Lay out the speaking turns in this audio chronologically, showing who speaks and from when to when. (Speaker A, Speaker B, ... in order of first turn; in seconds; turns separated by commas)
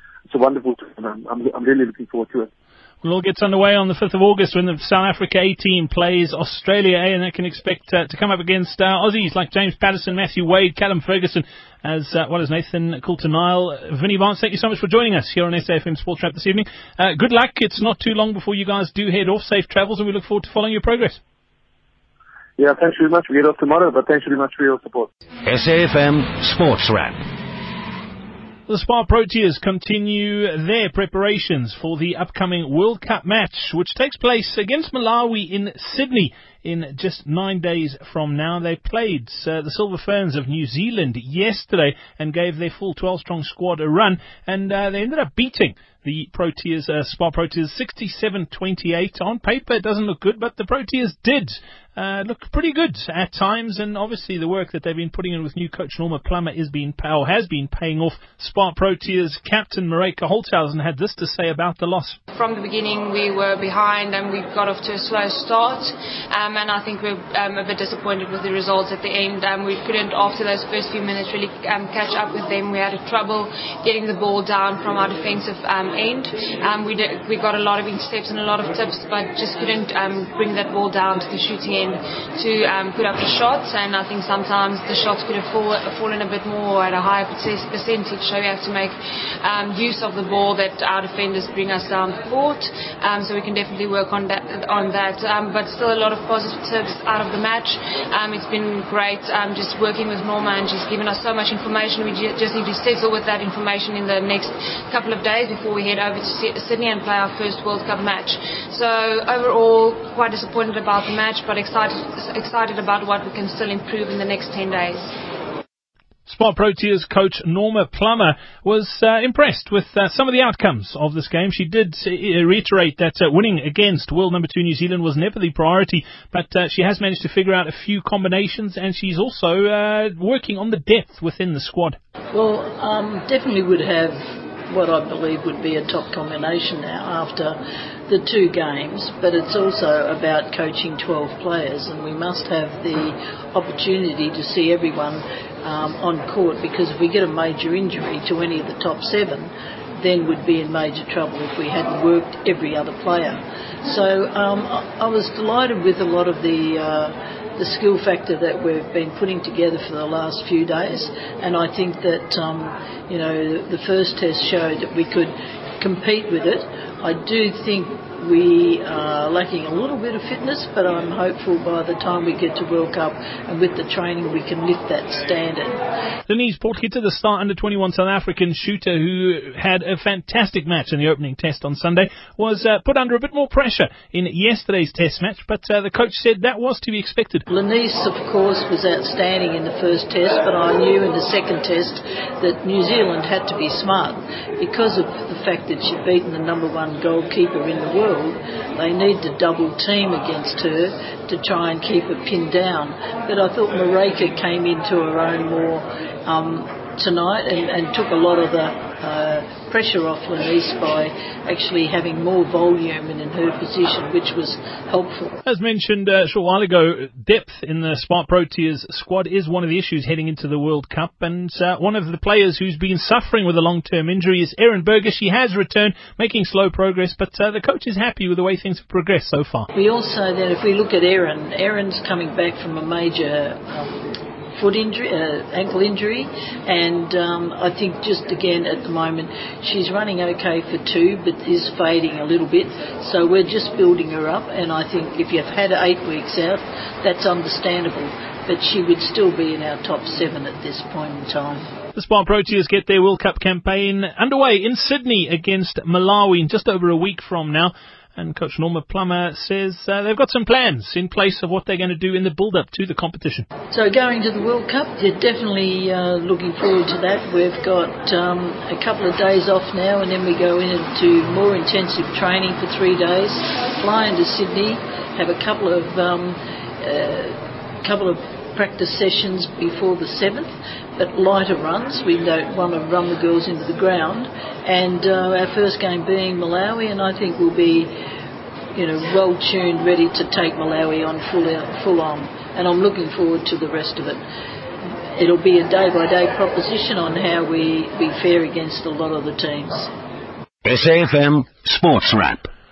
Speaker A: 0.3-2.5, Speaker B: 3.0-21.2, Speaker A: 22.6-25.1, Speaker C: 25.4-27.2, Speaker B: 28.7-62.2, Speaker D: 62.3-115.2, Speaker B: 116.3-132.0, Speaker E: 132.3-175.8, Speaker B: 176.3-187.5, Speaker E: 187.5-215.4, Speaker B: 215.4-229.7, Speaker E: 229.7-233.9, Speaker E: 234.5-251.7, Speaker B: 251.9-263.5, Speaker E: 263.7-287.9, Speaker E: 288.7-294.2, Speaker E: 295.2-299.9, Speaker C: 300.6-302.5